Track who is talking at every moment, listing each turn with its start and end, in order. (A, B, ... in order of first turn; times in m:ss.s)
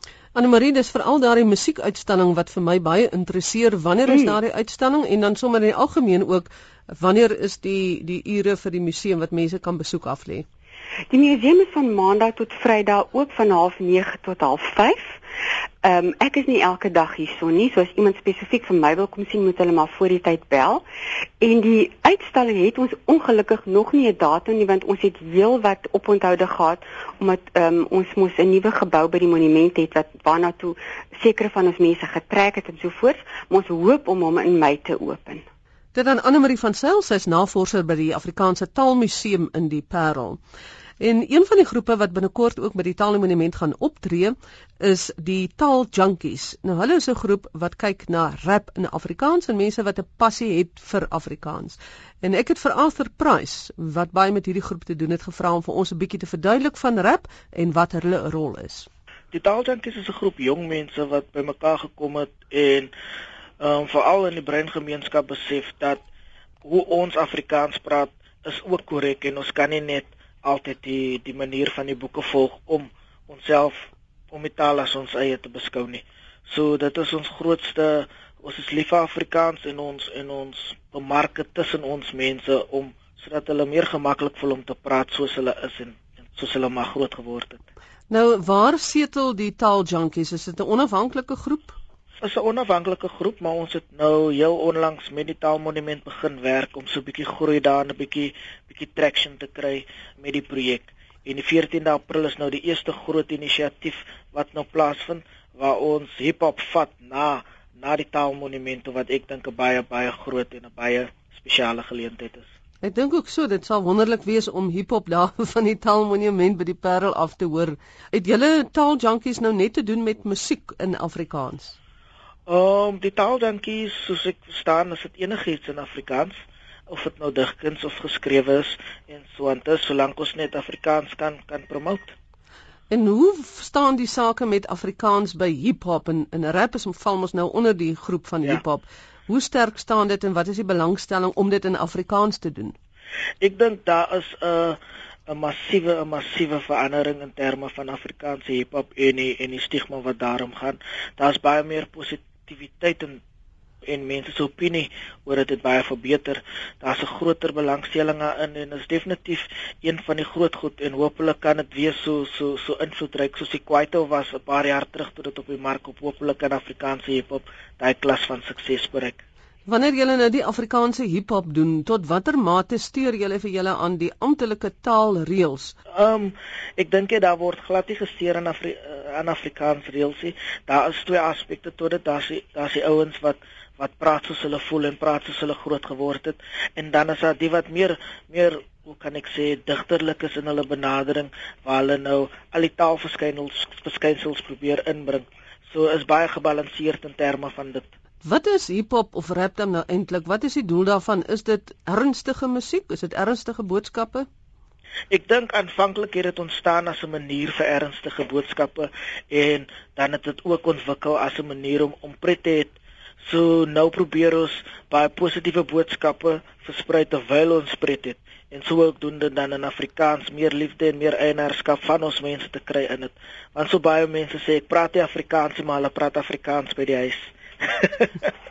0:00.3-0:10.5 A
0:04.1-0:04.4 B
0:11.1-0:15.2 B
0:15.8-0:20.8 B
0:21.4-0:35.4 B
0:35.9-0:40.4 A
0:41.0-0:58.9 A
0:59.3-1:02.9 C
1:03.6-1:06.0 C
1:06.6-1:27.6 C
1:28.1-1:31.8 A
1:32.2-1:52.5 C
1:52.8-2:01.8 A
2:02.5-2:06.4 C
2:06.9-2:12.1 C
2:12.9-2:22.8 A
2:23.4-2:33.2 C
2:33.8-2:49.2 C
2:49.6-2:55.8 A
2:55.9-3:17.9 C
3:18.2-3:24.3 A
3:25.1-3:48.3 C